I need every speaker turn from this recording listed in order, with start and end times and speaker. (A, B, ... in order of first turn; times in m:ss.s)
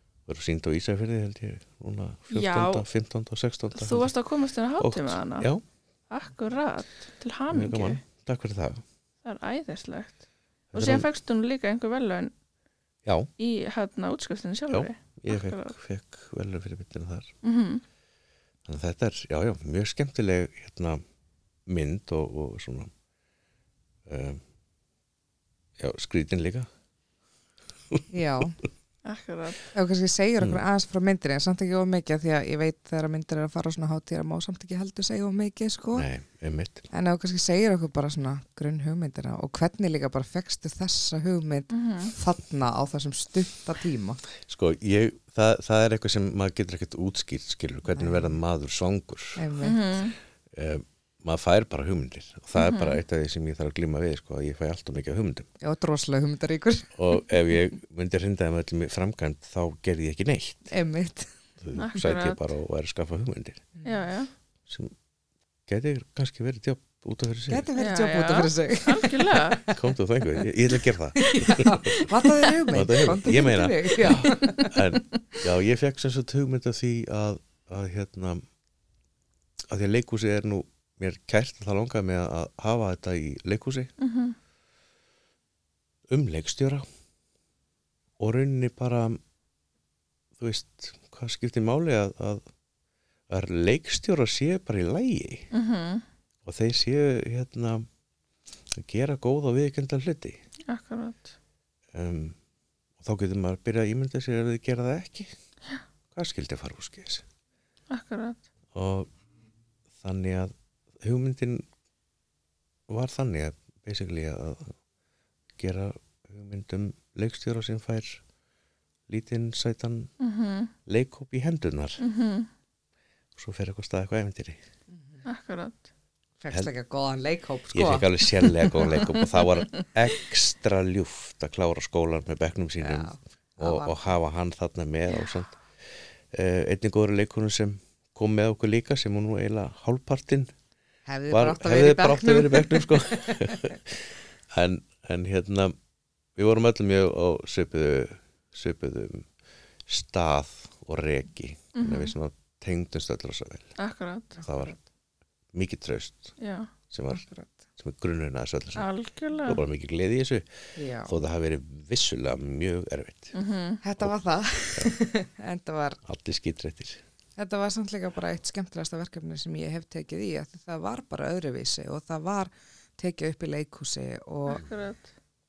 0:00.3-0:04.1 A
0:02.3-0:02.8 B
0:03.7-0:05.5 B
0:04.8-0:05.6 A
0:06.1-0:08.0 B
0:07.5-0:08.8 A
0:09.2-0:10.2 B
0:10.7-0:11.1 A
0:10.7-0:12.3 B
0:13.0-0:13.3 A
0:13.4-0:15.8 B
0:14.7-0:17.3 A
0:17.4-0:17.8 B
0:18.6-0:21.0 A
0:21.7-0:22.9 A
0:24.1-0:24.4 A
0:25.8-0:26.7 A
0:28.1-0:28.6 C
0:29.0-0:29.6 B
0:29.7-0:36.1 C
0:35.9-0:36.9 A
0:36.9-0:44.2 C
0:41.7-0:42.1 B
0:44.4-0:49.5 A
0:47.9-0:48.4 C
0:49.4-0:49.8 C
0:49.6-0:50.2 B
0:50.5-0:55.5 A
0:52.6-0:53.0 B
0:55.6-0:56.9 C
0:57.0-1:00.7 A
1:00.7-1:01.3 C
1:01.6-1:03.7 A
1:01.7-1:02.4 B
1:03.8-1:04.3 B
1:04.7-1:04.9 A
1:05.7-1:07.7 A
1:07.5-1:09.8 C
1:07.8-1:09.6 B
1:09.7-1:18.4 A
1:11.2-1:14.8 C
1:19.7-1:23.9 A
1:24.0-1:24.4 B
1:26.1-1:26.8 A
1:28.2-1:29.2 A
1:30.4-1:32.4 A
1:33.3-1:35.5 A
1:35.5-1:36.0 B
1:36.4-1:37.8 A
1:38.8-1:40.4 A
1:40.7-1:41.3 B
1:41.9-1:42.4 A
1:43.0-1:45.3 A
1:46.1-1:47.2 A
1:47.9-1:48.4 B
1:48.7-1:49.1 A
1:50.0-1:51.6 A
1:52.9-1:54.7 A
1:55.6-1:58.2 A
1:59.1-2:00.1 A
2:00.2-2:00.7 B
2:00.8-2:02.0 A
2:02.0-2:02.5 B
2:03.3-2:04.6 A
2:04.9-2:05.2 C
2:05.2-2:05.9 B
2:06.4-2:09.1 C
2:07.7-2:20.5 A
2:12.8-2:14.0 C
2:21.0-2:23.8 C
2:21.3-2:25.7 A
2:26.4-2:29.3 A
2:29.9-2:33.7 A
2:31.7-2:32.1 B
2:33.8-2:34.4 B
2:34.4-2:34.8 C
2:34.4-2:34.7 A
2:35.5-2:36.3 A
2:36.4-2:36.7 B
2:36.9-2:37.2 A
2:37.1-2:37.6 C
2:37.8-2:38.9 A
2:38.7-2:39.6 B
2:39.4-2:40.4 A
2:40.8-2:41.2 C
2:41.0-2:43.3 A
2:43.3-2:43.8 B
2:43.8-2:46.0 C
2:46.0-2:47.0 A
2:47.4-2:54.6 C
2:54.4-2:55.1 B